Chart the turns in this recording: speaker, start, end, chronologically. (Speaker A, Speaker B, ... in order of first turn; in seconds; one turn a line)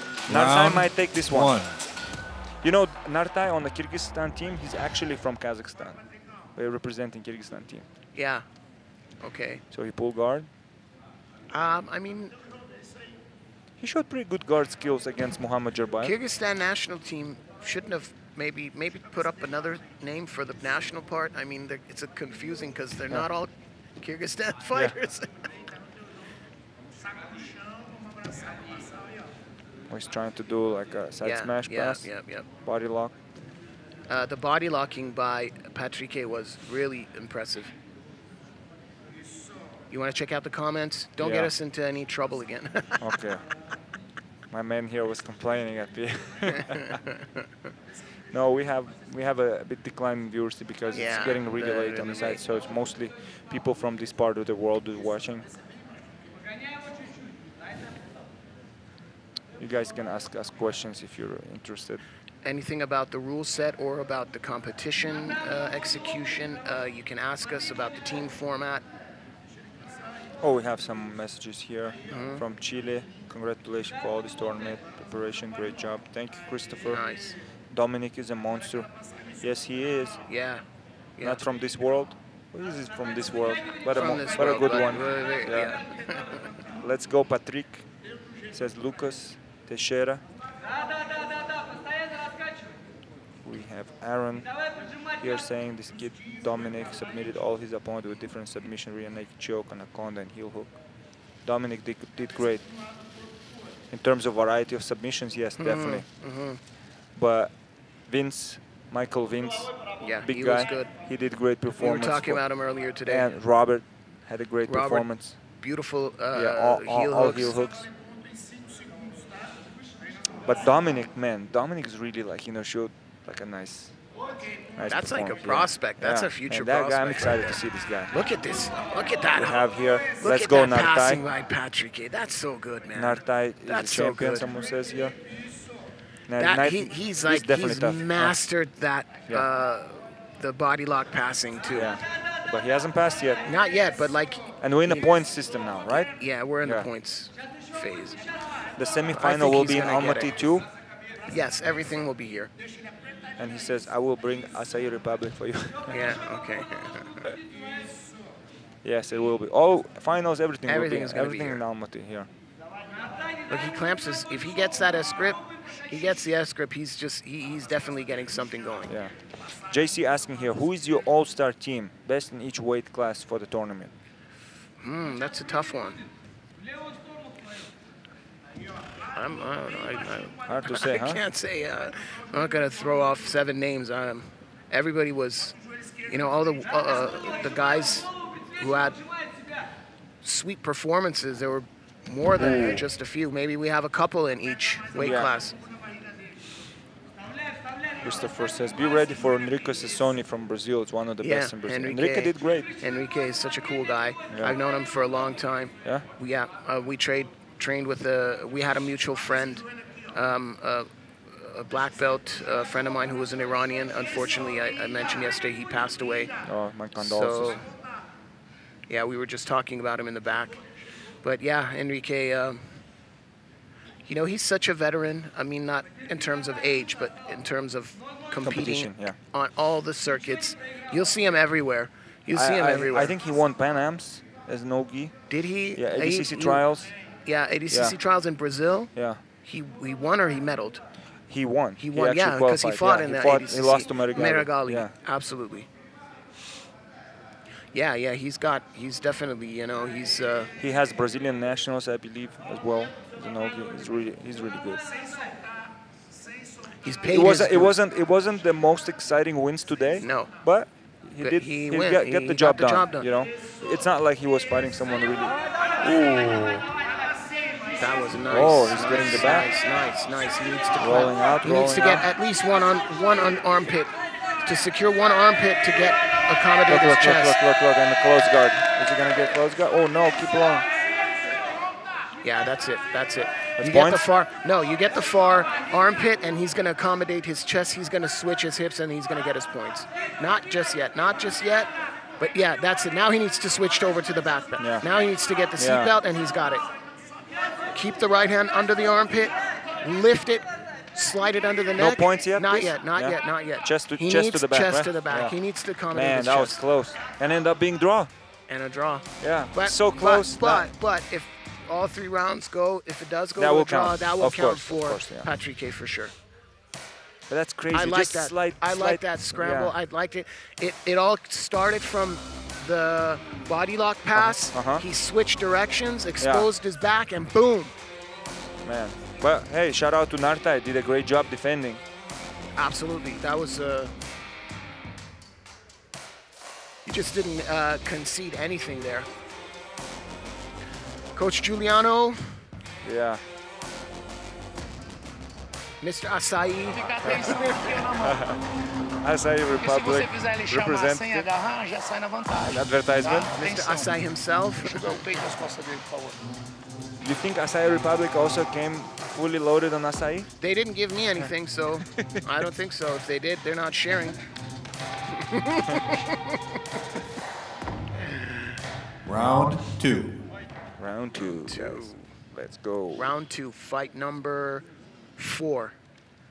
Speaker A: 0.2-1.8
Speaker B: 0.3-1.6
Speaker B: 2.6-6.0
Speaker B: 6.5-7.8
Speaker C: 8.1-8.4
Speaker C: 9.2-9.6
Speaker B: 9.7-10.5
Speaker C: 11.5-12.3
Speaker B: 13.8-16.1
Speaker C: 16.0-25.5
Speaker B: 29.9-32.1
Speaker C: 31.2-32.5
Speaker B: 32.6-33.1
Speaker C: 34.1-37.7
Speaker C: 39.9-43.1
Speaker B: 41.2-41.5
Speaker B: 43.0-43.4
Speaker B: 44.5-47.0
Speaker C: 46.6-47.4
Speaker B: 48.3-55.5
Speaker C: 50.9-52.4
Speaker B: 59.6-62.0
Speaker C: 62.4-68.8
Speaker B: 70.4-77.0
Speaker C: 72.1-72.4
Speaker C: 76.9-77.3
Speaker B: 77.7-78.9
Speaker B: 79.4-80.2
Speaker C: 80.3-80.6
Speaker B: 81.2-85.8
Speaker C: 83.9-86.5
Speaker B: 86.8-87.9
Speaker B: 88.5-90.2
Speaker B: 93.4-94.5
Speaker B: 95.2-100.7
Speaker B: 101.4-102.7
Speaker B: 103.9-106.1
Speaker C: 105.6-106.6
Speaker B: 107.1-107.5
Speaker B: 108.1-109.7
Speaker C: 110.0-110.9
Speaker B: 110.2-112.4
Speaker C: 111.8-113.3
Speaker B: 113.0-115.3
Speaker C: 114.7-117.5
Speaker B: 116.3-117.9
Speaker B: 120.4-123.9
Speaker B: 124.8-128.1
Speaker C: 124.8-129.7
Speaker B: 129.3-131.2
Speaker C: 130.2-134.5
Speaker B: 132.9-135.2
Speaker B: 136.3-138.4
Speaker C: 136.3-141.9
Speaker B: 141.7-143.4
Speaker C: 143.4-145.1
Speaker B: 144.6-146.9
Speaker C: 146.2-148.2
Speaker B: 148.8-150.7
Speaker C: 149.1-150.3
Speaker C: 151.3-152.5
Speaker B: 153.4-156.1
Speaker C: 155.9-157.3
Speaker B: 158.8-162.3
Speaker C: 160.7-161.6
Speaker C: 163.5-168.9
Speaker B: 169.7-173.9
Speaker C: 174.8-176.0
Speaker C: 179.1-185.6
Speaker B: 180.5-181.2
Speaker C: 186.1-189.0
Speaker C: 190.2-195.6
Speaker B: 192.3-192.8
Speaker B: 194.9-195.3
Speaker B: 198.0-202.7
Speaker C: 201.2-216.3
Speaker B: 204.3-204.5
Speaker B: 216.4-217.6
Speaker C: 216.9-217.7
Speaker C: 218.9-220.6
Speaker C: 221.2-222.8
Speaker C: 224.0-233.1
Speaker B: 228.4-229.2
Speaker B: 232.3-235.1
Speaker C: 235.3-236.7
Speaker B: 235.7-236.9
Speaker C: 237.2-240.8
Speaker B: 237.7-238.0
Speaker B: 238.9-239.2
Speaker B: 241.3-244.9
Speaker C: 241.8-245.7
Speaker C: 247.7-250.5
Speaker B: 250.6-254.8
Speaker C: 256.8-257.8
Speaker B: 257.1-266.6
Speaker C: 260.0-260.3
Speaker C: 261.2-263.1
Speaker C: 267.8-277.4
Speaker B: 268.3-269.5
Speaker B: 270.8-272.1
Speaker B: 276.7-280.7
Speaker C: 282.2-296.6
Speaker B: 283.6-284.0
Speaker B: 294.6-294.8
Speaker B: 295.6-295.9
Speaker C: 297.7-306.6
Speaker B: 301.8-305.4
Speaker B: 305.9-308.1
Speaker C: 308.5-316.1
Speaker B: 309.2-310.7
Speaker B: 313.4-315.3
Speaker B: 317.3-319.7
Speaker C: 317.7-327.7
Speaker B: 324.1-324.8
Speaker B: 326.2-326.5
Speaker B: 328.6-331.8
Speaker C: 332.6-333.9
Speaker C: 336.9-339.1
Speaker C: 341.1-342.4
Speaker B: 342.8-343.2
Speaker C: 345.8-347.8
Speaker D: 346.7-348.3
Speaker B: 348.0-351.3
Speaker D: 349.6-353.9
Speaker B: 352.4-353.3
Speaker C: 353.3-355.0
Speaker D: 354.6-356.2
Speaker B: 357.0-360.3
Speaker C: 360.4-364.2
Speaker B: 362.0-362.2
Speaker C: 365.1-366.4
Speaker C: 368.1-368.5
Speaker A: 369.0-370.2
Speaker B: 370.8-373.1
Speaker C: 371.2-372.1
Speaker C: 372.9-374.6
Speaker C: 375.2-375.7